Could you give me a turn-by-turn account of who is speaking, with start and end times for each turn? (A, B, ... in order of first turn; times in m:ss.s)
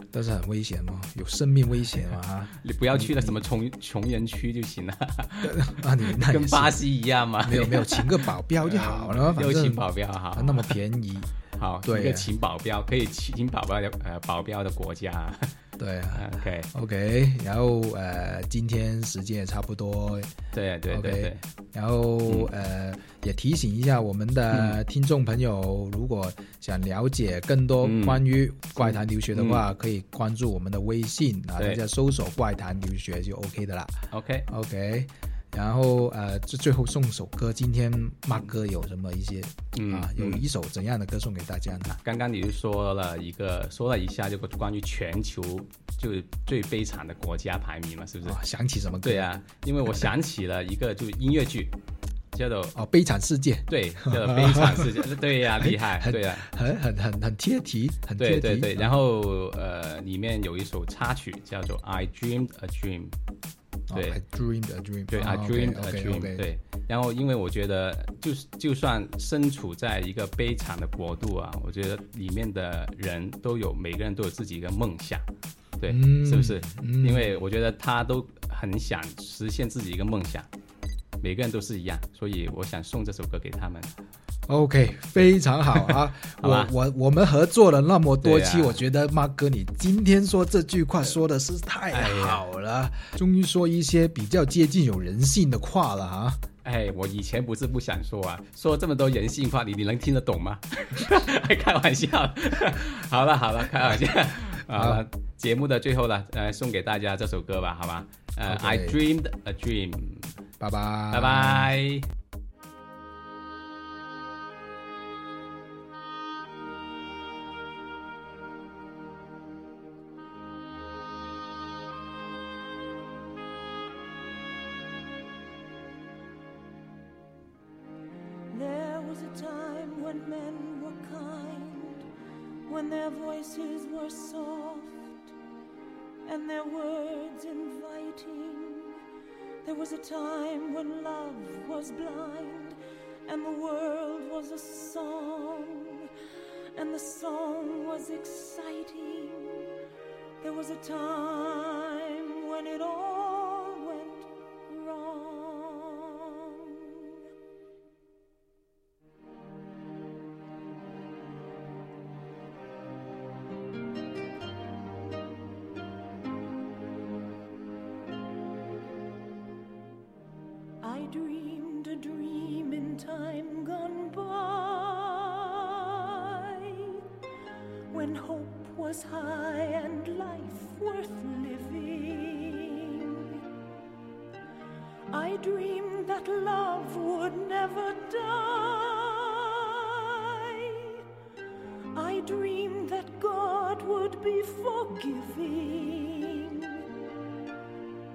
0:00.1-0:03.3 A
0:02.6-0:10.8 B
0:05.4-0:06.8 A
0:07.4-0:11.3 A
0:11.5-0:15.5 B
0:11.8-0:12.3 A
0:15.8-0:20.3 A
0:16.1-0:16.7 B
0:20.5-0:21.4 B
0:20.9-0:42.0 A
0:22.3-0:22.5 B
0:24.5-0:24.8 B
0:27.8-0:28.3 B
0:28.8-0:29.6 B
0:34.1-0:34.5 B
0:39.7-0:40.4 B
0:41.9-0:48.4 B
0:48.2-0:49.3 A
0:49.0-0:51.7 B
0:52.3-0:52.8 B
0:52.7-0:59.0 A
0:53.7-0:56.4 B
0:58.2-1:03.1 B
1:03.9-1:06.5 A
1:03.9-1:04.2 B
1:05.1-1:15.2 B
1:15.8-1:20.5 B
1:15.9-1:17.4 A
1:21.2-1:23.9 B
1:24.5-1:36.4 A
1:25.7-1:26.7 B
1:28.2-1:28.8 B
1:31.9-1:32.4 B
1:36.6-1:50.3 B
1:44.6-1:45.0 A
1:48.4-1:49.0 A
1:50.6-1:51.8 A
1:51.1-1:52.1 B
2:08.5-2:12.0 C
2:12.7-2:15.3 C
2:16.2-2:19.0 C
2:19.6-2:26.1 C
2:26.7-2:29.7 C
2:30.4-2:37.2 C
2:50.8-2:57.0 C
2:57.9-3:03.4 C
3:05.1-3:11.0 C
3:12.0-3:16.8 C